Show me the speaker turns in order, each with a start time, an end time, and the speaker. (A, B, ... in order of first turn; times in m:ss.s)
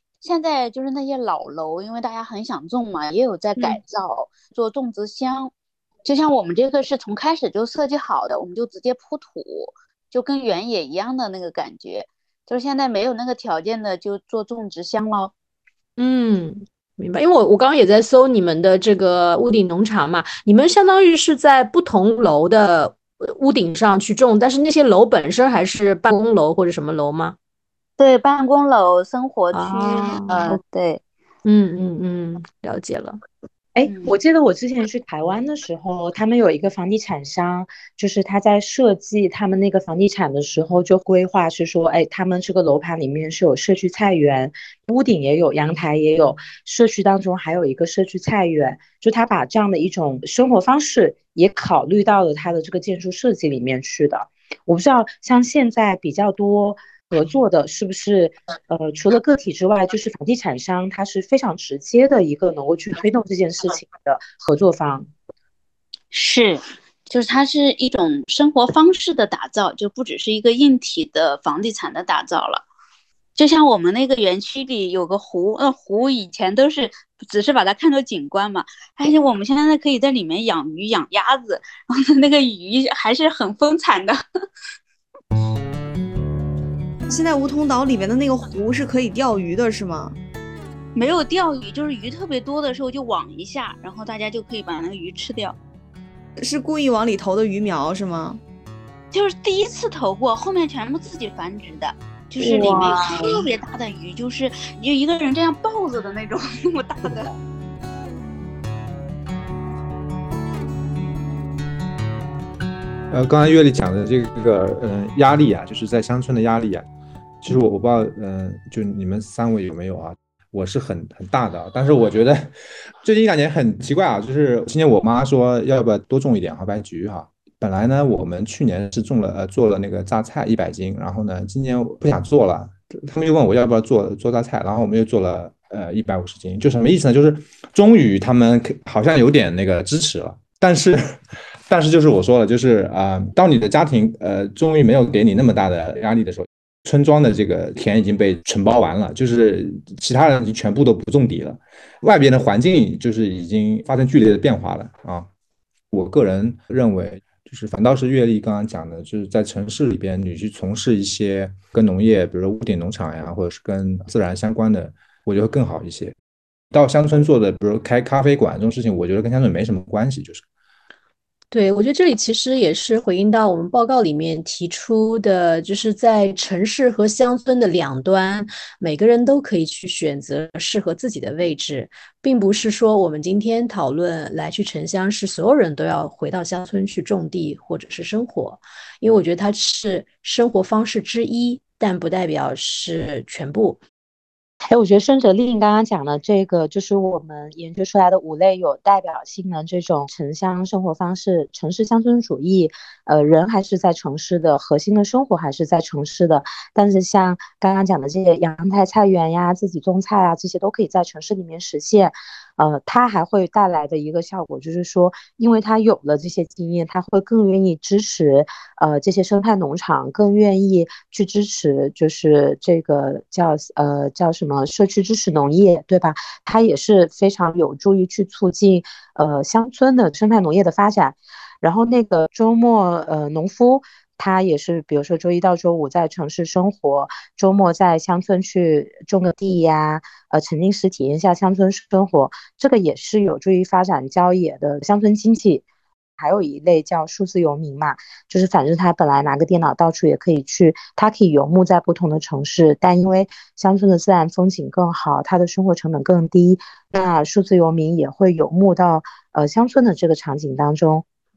0:00.2-0:05.5 A
0:06.0-0:15.3 A
0:16.0-0:27.4 B
0:28.0-0:31.0 A
0:29.5-0:30.6 B
0:31.4-0:33.2 B
0:33.7-1:05.1 C
1:06.1-1:12.6 A
1:13.4-1:24.2 A
1:27.1-1:30.2 D
1:30.9-1:35.6 A
1:36.4-1:38.4 D
1:39.1-1:47.3 A
1:42.4-1:42.7 B
1:53.1-1:56.9 E
1:57.4-2:21.2 E
2:21.7-2:35.3 E
2:35.9-2:46.1 E
2:46.7-2:50.4 E
2:51.5-3:13.8 B
3:14.7-4:05.6 C
4:06.2-4:21.0 C